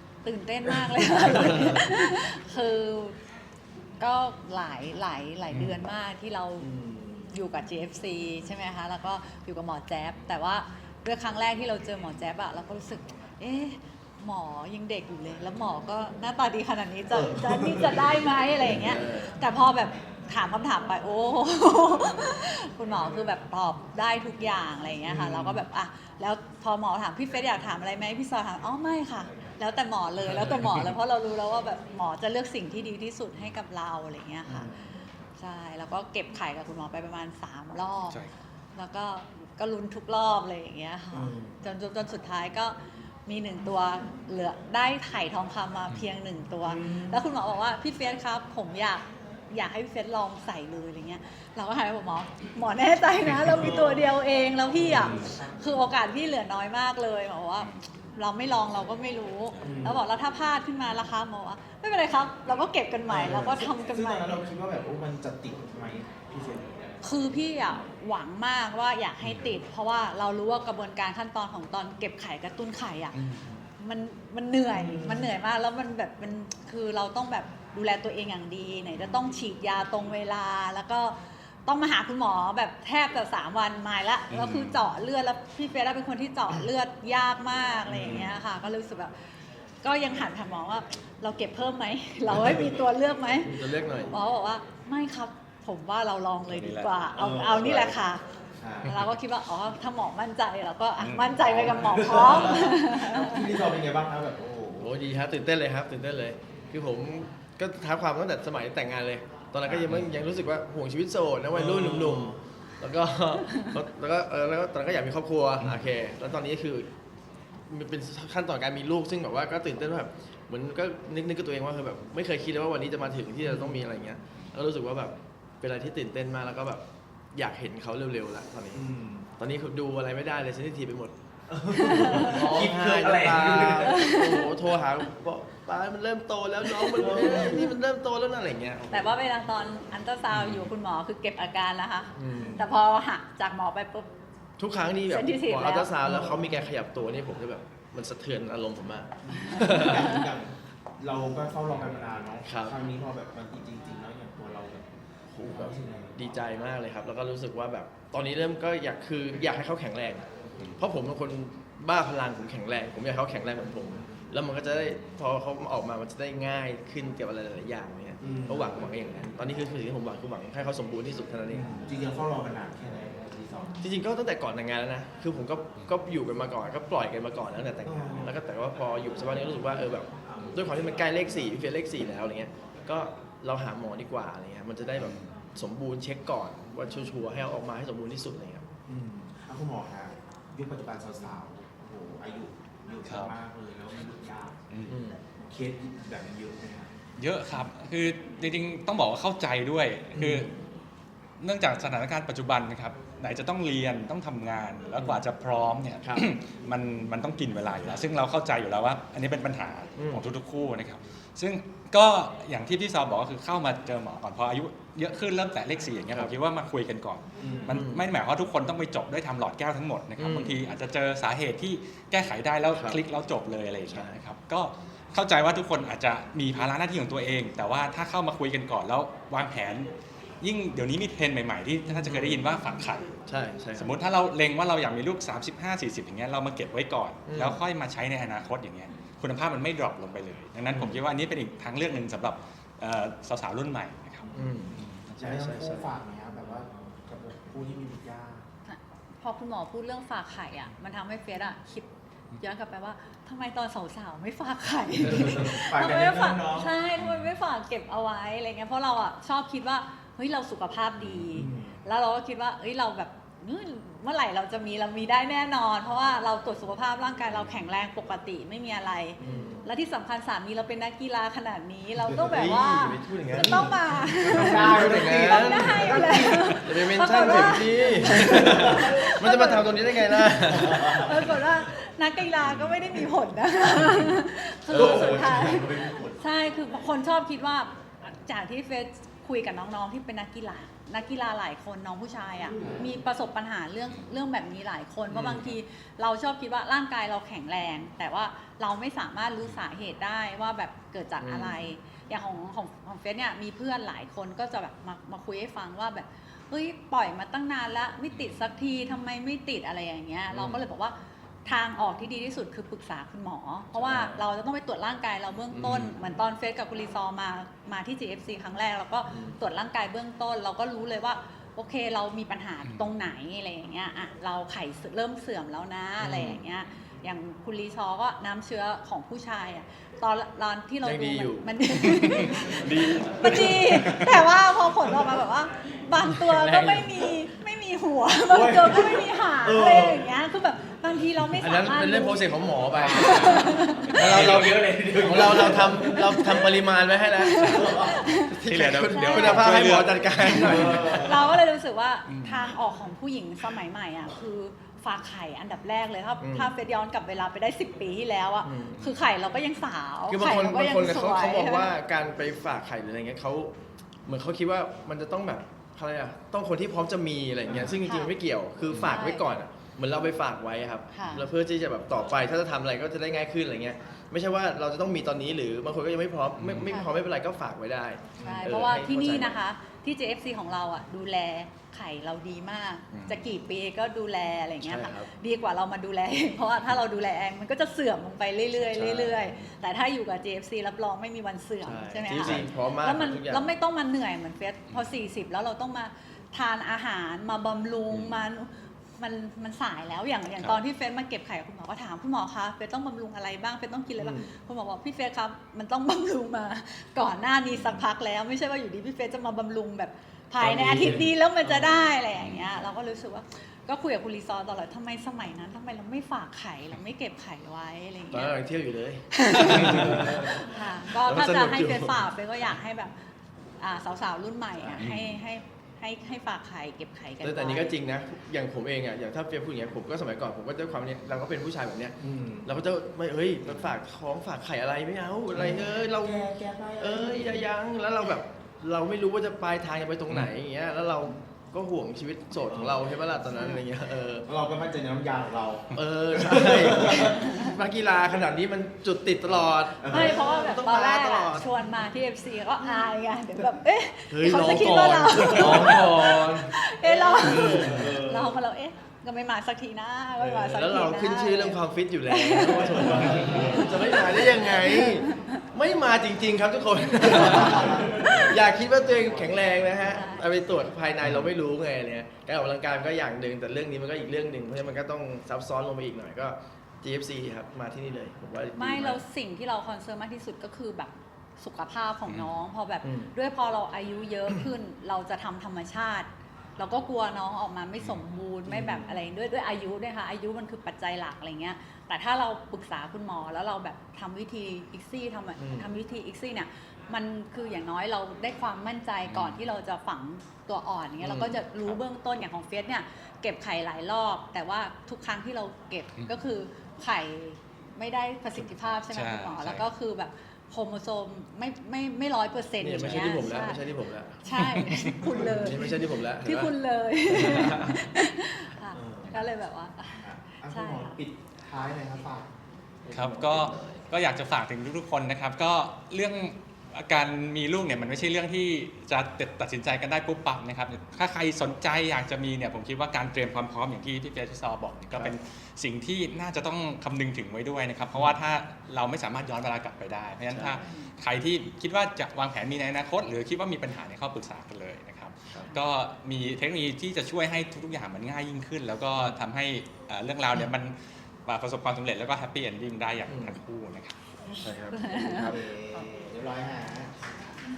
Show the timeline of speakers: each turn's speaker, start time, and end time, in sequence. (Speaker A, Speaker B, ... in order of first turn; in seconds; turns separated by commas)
Speaker A: 0.2-3.2, Speaker B: 1.4-1.8, Speaker A: 4.0-6.7, Speaker C: 5.5-5.8, Speaker D: 6.6-7.3, Speaker A: 7.3-34.7, Speaker B: 17.1-17.5, Speaker B: 18.6-19.4, Speaker D: 25.1-25.6, Speaker D: 34.5-35.1, Speaker A: 35.4-38.2, Speaker A: 38.8-64.4, Speaker D: 41.1-41.6, Speaker D: 46.6-47.2, Speaker C: 54.9-55.3, Speaker D: 59.6-60.0, Speaker D: 63.1-67.0, Speaker A: 67.0-73.2, Speaker C: 73.1-73.6, Speaker A: 73.8-89.1, Speaker D: 74.7-75.3, Speaker C: 84.3-84.8, Speaker D: 87.8-88.3, Speaker A: 89.8-93.6, Speaker B: 93.4-94.1, Speaker A: 94.1-98.2, Speaker C: 96.5-96.9, Speaker D: 97.2-97.9, Speaker D: 98.6-99.0, Speaker A: 98.8-103.4, Speaker C: 101.0-101.8, Speaker D: 101.4-104.9, Speaker B: 102.3-102.5, Speaker B: 104.8-116.9, Speaker D: 109.7-109.9, Speaker C: 109.8-110.1, Speaker D: 111.5-112.4, Speaker B: 117.7-128.9, Speaker D: 123.4-123.8, Speaker D: 128.7-129.3, Speaker B: 129.4-131.1, Speaker D: 131.5-134.0, Speaker A: 131.8-132.4, Speaker B: 131.9-139.1, Speaker A: 133.8-134.4, Speaker A: 136.7-137.7, Speaker D: 137.0-137.6, Speaker A: 138.9-144.1, Speaker C: 140.3-140.7, Speaker B: 142.1-142.6, Speaker D: 142.3-142.6, Speaker B: 144.6-150.1, Speaker A: 145.1-145.9, Speaker D: 146.1-146.4, Speaker D: 149.2-154.9, Speaker A: 149.5-150.2, Speaker B: 152.4-152.8, Speaker B: 155.3-160.2, Speaker D: 155.4-156.4, Speaker B: 160.8-171.7, Speaker D: 168.2-168.7, Speaker D: 171.5-173.8, Speaker B: 173.8-188.7, Speaker D: 177.8-178.3, Speaker D: 180.3-180.9, Speaker C: 185.0-185.3, Speaker D: 188.9-194.6, Speaker C: 193.0-193.4, Speaker C: 194.7-194.9, Speaker B: 194.9-195.2, Speaker D: 195.3-196.9, Speaker C: 197.2-200.5, Speaker B: 200.2-200.5, Speaker C: 201.4-233.1, Speaker B: 205.0-205.2, Speaker B: 206.0-206.2, Speaker B: 210.0-210.2, Speaker B: 216.1-216.4, Speaker D: 217.4-217.8, Speaker B: 217.7-218.1, Speaker B: 220.2-220.6, Speaker B: 222.7-223.0, Speaker B: 223.9-224.2, Speaker B: 231.9-232.5, Speaker B: 233.3-234.0, Speaker C: 233.8-245.1, Speaker B: 237.3-237.6, Speaker B: 240.7-241.0, Speaker D: 244.2-248.4, Speaker B: 244.3-245.9, Speaker A: 248.7-344.0, Speaker B: 255.0-255.4, Speaker D: 255.3-256.7, Speaker C: 257.0-257.3, Speaker C: 261.0-261.5, Speaker D: 261.4-261.8, Speaker B: 269.2-269.6, Speaker D: 269.2-269.4, Speaker D: 272.0-272.3, Speaker B: 272.2-273.7, Speaker D: 273.3-276.5, Speaker B: 274.3-281.4, Speaker D: 278.1-278.9, Speaker D: 280.5-281.3, Speaker C: 282.4-282.8, Speaker B: 284.7-285.4, Speaker D: 284.7-286.2, Speaker D: 292.5-292.9, Speaker B: 295.1-295.6, Speaker B: 301.2-301.8, Speaker C: 308.1-308.4, Speaker B: 310.3-310.7, Speaker B: 313.7-314.2, Speaker B: 315.5-315.9, Speaker C: 315.6-315.9, Speaker B: 319.1-319.4, Speaker C: 322.6-322.9, Speaker B: 326.0-326.5, Speaker B: 330.8-332.1, Speaker C: 331.7-334.2, Speaker B: 336.3-337.1, Speaker D: 338.2-340.1, Speaker B: 341.4-351.2, Speaker D: 342.7-346.4, Speaker C: 343.9-345.4, Speaker A: 346.0-346.4, Speaker A: 347.2-348.4, Speaker D: 347.4-348.0, Speaker C: 348.4-351.0, Speaker A: 348.9-349.6, Speaker A: 350.2-361.8, Speaker D: 350.5-351.1, Speaker C: 352.1-352.5, Speaker B: 356.2-356.6, Speaker B: 358.4-358.9, Speaker B: 360.1-363.6, Speaker B: 364.1-379.4, Speaker D: 367.4-367.7, Speaker A: 367.7-368.1, Speaker A: 368.8-369.4, Speaker A: 370.9-371.3, Speaker C: 376.4-376.8, Speaker A: 376.6-376.9, Speaker D: 378.2-378.5, Speaker A: 378.2-418.4, Speaker B: 382.9-383.2, Speaker B: 384.6-385.1, Speaker B: 388.6-389.5, Speaker B: 391.6-393.5, Speaker C: 392.2-392.5, Speaker C: 397.9-398.2, Speaker D: 404.0-404.3, Speaker C: 407.5-407.8, Speaker B: 410.4-411.9, Speaker C: 412.1-412.5, Speaker B: 418.1-422.0, Speaker A: 419.1-422.9, Speaker C: 419.6-420.0, Speaker A: 423.6-427.8, Speaker C: 424.8-425.2, Speaker B: 427.2-444.3, Speaker D: 432.0-432.5, Speaker D: 435.3-437.5, Speaker D: 442.5-442.8, Speaker D: 444.2-447.1, Speaker B: 445.8-451.4, Speaker A: 447.1-447.5, Speaker D: 449.8-450.2, Speaker A: 449.9-465.3, Speaker B: 454.1-458.0, Speaker D: 457.2-458.4, Speaker B: 460.2-479.0, Speaker D: 462.7-463.8, Speaker D: 467.1-468.4, Speaker A: 469.9-470.3, Speaker A: 478.5-513.7, Speaker C: 482.1-482.3, Speaker B: 482.8-483.1, Speaker B: 488.5-489.0, Speaker B: 495.4-495.7, Speaker C: 499.1-499.4, Speaker B: 501.0-501.4, Speaker C: 508.9-509.7, Speaker B: 512.6-514.2, Speaker C: 512.8-513.2, Speaker A: 514.2-521.0, Speaker C: 514.3-515.0, Speaker D: 515.0-515.8, Speaker B: 515.1-516.5, Speaker B: 517.0-517.9, Speaker D: 518.7-519.1, Speaker D: 520.0-522.3, Speaker D: 522.9-523.2, Speaker C: 522.9-554.0, Speaker B: 523.1-523.9, Speaker B: 540.3-540.6, Speaker A: 540.5-540.9, Speaker B: 553.1-553.4, Speaker B: 554.3-555.4, Speaker A: 554.7-555.3, Speaker D: 555.2-556.9